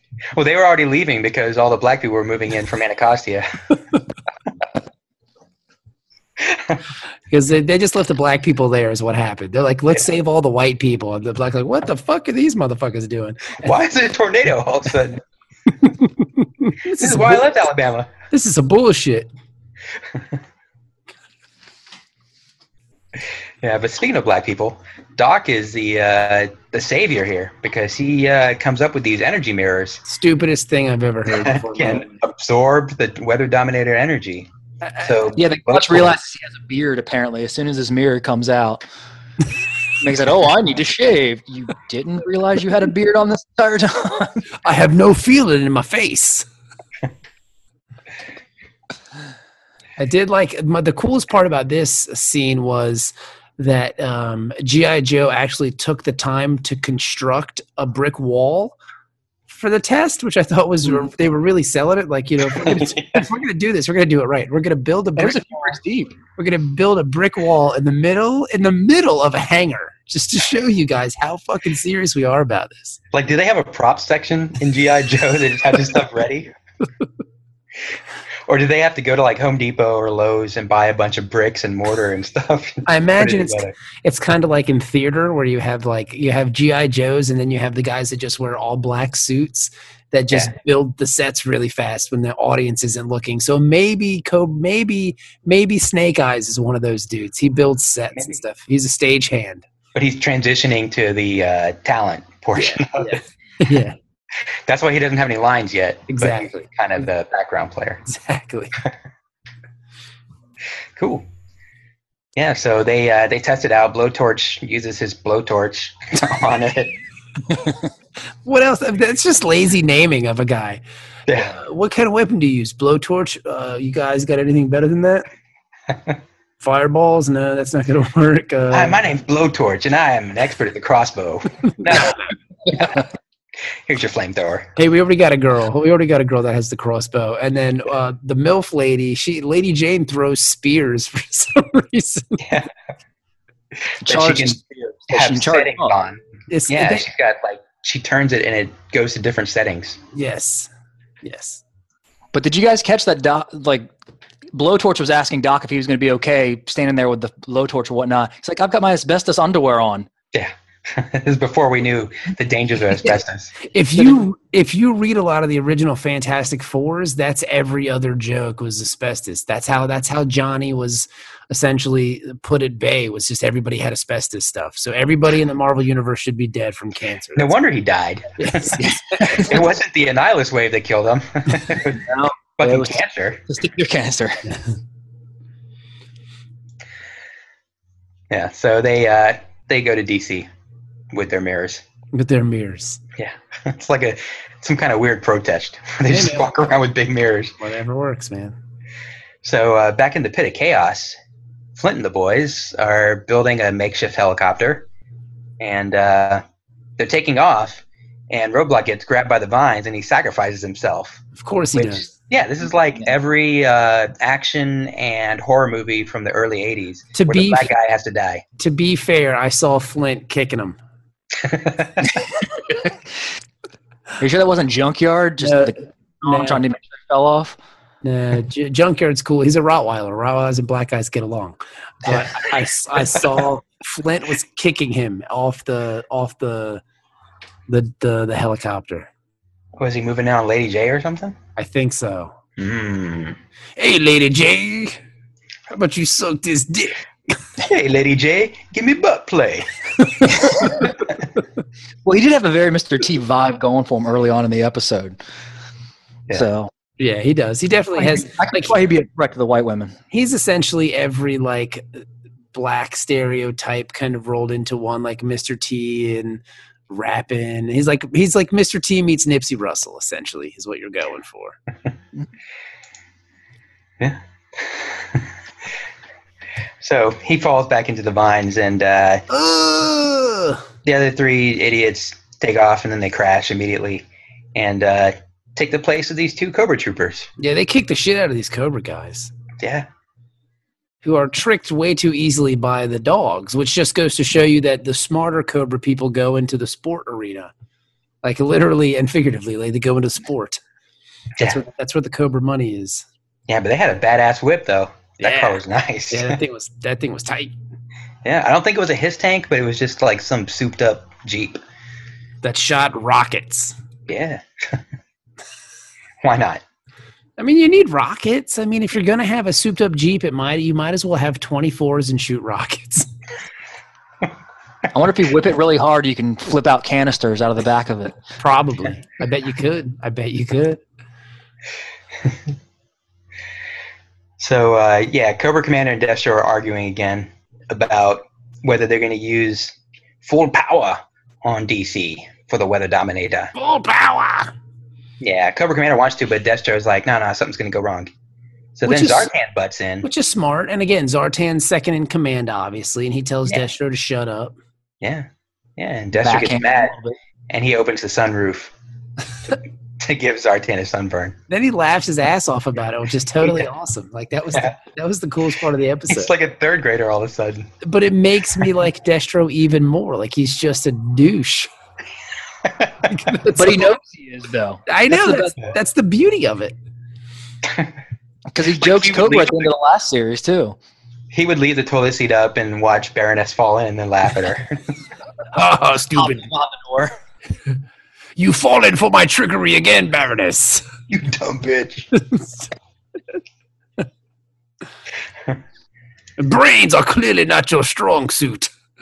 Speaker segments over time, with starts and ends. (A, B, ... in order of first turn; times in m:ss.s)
0:00.3-0:03.5 A
0:06.4-0:06.8 A
0:07.3-0:13.7 B
0:13.6-0:15.2 A
0:15.8-0:17.4 B
0:17.0-0:18.1 A
0:18.3-0:19.3 B
0:23.6-0:30.0 A
0:30.0-0:32.1 B
0:31.3-0:36.1 A
0:35.4-0:38.8 C
0:40.0-0:44.4 C
0:44.6-0:46.4 B
0:50.0-0:58.7 B
0:59.5-1:05.8 B
1:02.6-1:03.2 A
1:05.2-1:06.1 C
1:06.4-1:13.0 B
1:13.1-1:16.5 A
1:18.5-1:23.7 A
1:22.9-1:39.6 B
1:39.9-1:43.2 A
1:42.5-1:44.0 B
1:44.6-1:48.0 A
1:46.1-1:46.7 B
1:48.1-1:48.7 B
1:51.0-1:51.2 A
1:52.4-1:56.9 A
1:58.4-2:00.8 B
2:01.3-2:01.6 A
2:01.3-2:05.2 B
2:06.6-2:09.0 B
2:08.7-2:12.2 A
2:12.7-2:13.0 A
2:13.9-2:14.7 A
2:14.8-2:22.4 B
2:22.4-2:22.7 A
2:23.9-2:30.0 A
2:24.0-2:25.9 C
2:26.5-2:27.0 B
2:30.1-2:30.7 B
2:31.2-2:31.6 B
2:32.3-2:33.9 C
2:34.5-2:40.1 C
2:40.3-2:43.5 A
2:43.7-2:57.5 B
2:57.4-2:58.8 A
2:58.4-2:59.5 B
2:58.8-2:59.6 C
2:59.4-3:03.4 A
3:01.9-3:04.4 C
3:08.3-3:10.5 A
3:11.1-3:11.8 A
3:12.1-3:13.0 B
3:13.2-3:17.5 A
3:16.1-3:16.6 B
3:17.6-3:18.6 B
3:19.4-3:21.2 A
3:21.8-3:24.9 A
3:25.6-3:26.4 A
3:27.0-3:38.4 A
3:31.4-3:32.1 B
3:37.1-3:37.7 B
3:38.6-3:40.8 B
3:41.4-3:42.1 A
3:44.2-3:47.6 C
3:45.4-3:46.6 B
3:48.0-3:56.8 B
3:57.7-3:59.1 B
3:59.8-4:01.4 A
4:01.6-4:02.3 B
4:02.6-4:03.4 A
4:03.8-4:05.0 B
4:05.7-4:07.0 B
4:07.6-4:09.7 A
4:12.0-4:15.2 C
4:16.3-4:16.7 C
4:17.0-4:18.7 B
4:17.9-4:20.0 C
4:20.1-4:31.6 B
4:34.0-4:35.2 A
4:36.8-4:39.2 A
4:39.3-4:40.6 B
4:40.8-4:47.3 A
4:47.4-4:49.3 B
4:49.6-4:49.9 A
4:51.0-4:57.5 B
4:58.2-5:00.6 B
5:01.4-5:03.0 B
5:03.5-5:06.4 A
5:05.2-5:07.5 B
5:08.2-5:11.6 A
5:12.4-5:13.8 B
5:14.1-5:14.8 A
5:16.2-5:16.6 A
5:17.4-5:23.1 B
5:24.9-5:28.2 C
5:28.4-5:30.8 B
5:34.4-5:43.5 A
5:43.5-5:44.5 B
5:45.2-5:48.1 A
5:48.8-5:50.1 A
5:48.8-5:49.3 B
5:50.0-5:54.5 B
5:55.0-5:55.3 A
5:55.8-5:56.9 A
5:56.2-5:57.2 C
5:57.5-5:58.7 A
5:59.5-6:01.4 A
6:01.5-6:06.3 B
6:06.1-6:07.7 A
6:07.8-6:11.7 B
6:12.6-6:12.9 A
6:13.1-6:14.0 B
6:13.5-6:15.5 C
6:14.9-6:16.7 B
6:17.6-6:17.9 A
6:18.5-6:20.8 C
6:18.8-6:19.7 A
6:21.3-6:24.8 A
6:25.5-6:26.5 B
6:26.1-6:27.1 C
6:28.4-6:30.8 B
6:31.1-6:32.1 A
6:32.1-6:32.7 B
6:36.4-6:38.7 B